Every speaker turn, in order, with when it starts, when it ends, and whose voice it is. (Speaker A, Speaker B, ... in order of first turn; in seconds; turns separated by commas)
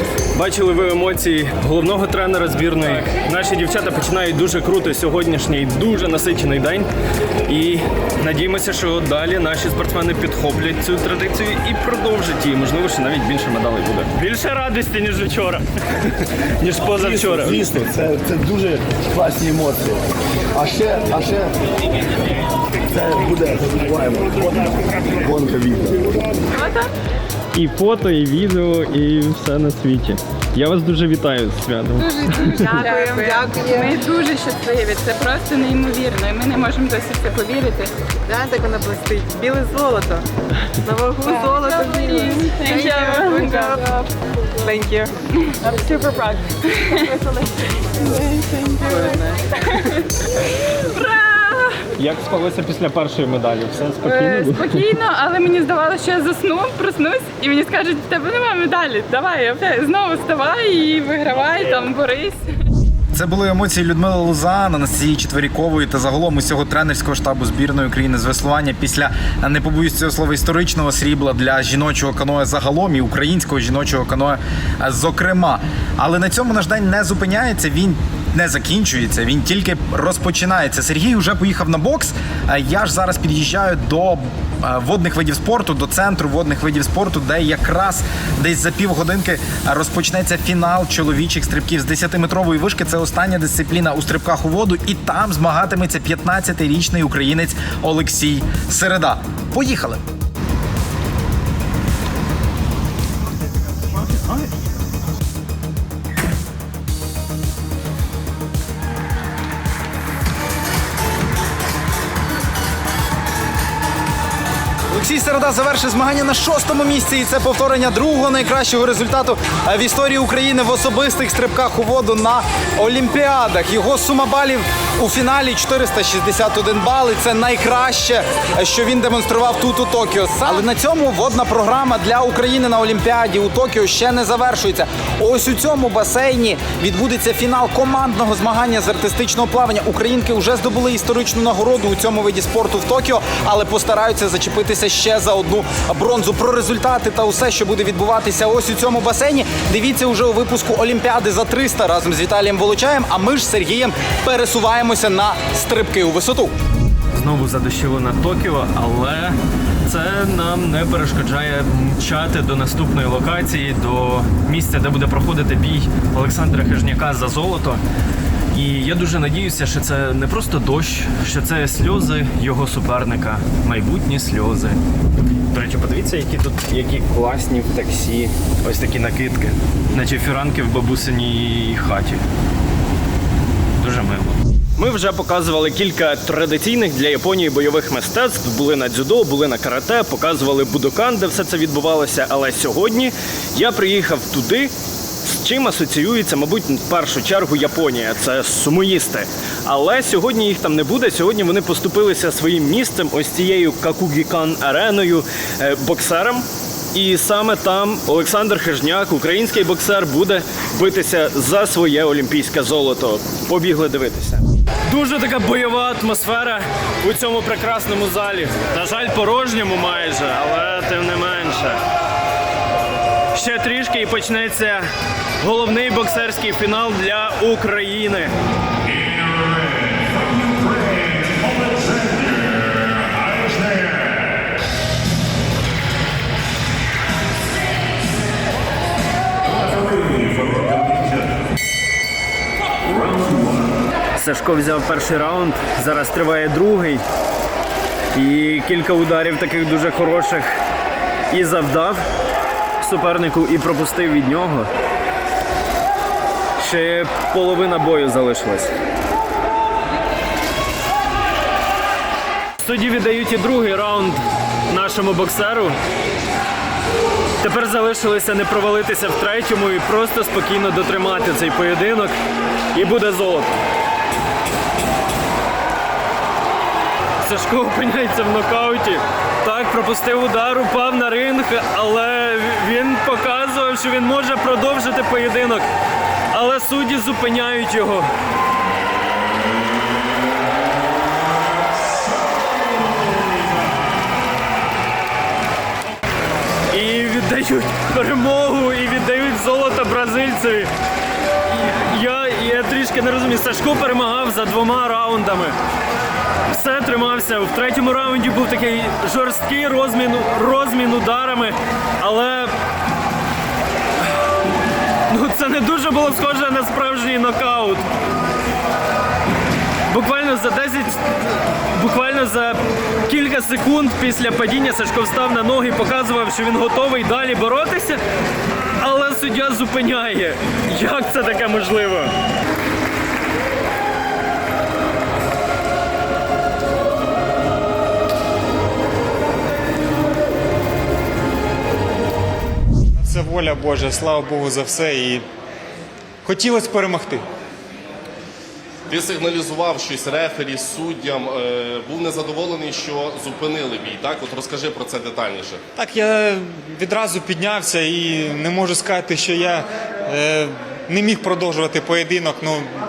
Speaker A: 0.3-6.9, Speaker A: 7.5-17.6, Speaker B: 17.0-21.5, Speaker B: 22.9-26.2, Speaker C: 26.5-26.9, Speaker A: 27.5-32.9, Speaker D: 32.3-33.9, Speaker C: 32.3-37.9, Speaker D: 38.3-44.1, Speaker C: 41.3-43.8, Speaker D: 44.6-49.7, Speaker C: 49.7-50.0, Speaker C: 50.8-51.8, Speaker A: 52.0-55.0, Speaker C: 54.0-62.4, Speaker E: 63.1-100.0, Speaker E: 114.9-156.5, Speaker A: 157.1-159.3, Speaker A: 159.9-167.8, Speaker A: 168.5-174.8, Speaker A: 175.5-182.2, Speaker A: 183.8-194.7, Speaker A: 195.2-221.8, Speaker A: 223.3-224.9, Speaker A: 225.4-228.3, Speaker A: 244.2-247.0, Speaker A: 248.1-250.6, Speaker A: 251.3-252.0, Speaker A: 252.8-254.7, Speaker A: 256.6-258.7, Speaker A: 262.6-265.8, Speaker A: 267.4-272.1, Speaker A: 272.7-273.5, Speaker A: 277.2-285.7, Speaker A: 286.3-288.1, Speaker A: 296.7-300.7, Speaker A: 301.5-305.6, Speaker A: 306.5-312.5, Speaker A: 315.1-317.8, Speaker A: 319.9-321.0, Speaker A: 321.7-328.0, Speaker A: 328.8-332.1, Speaker F: 343.0-345.2, Speaker F: 346.2-347.2, Speaker G: 348.9-355.6, Speaker F: 355.8-362.7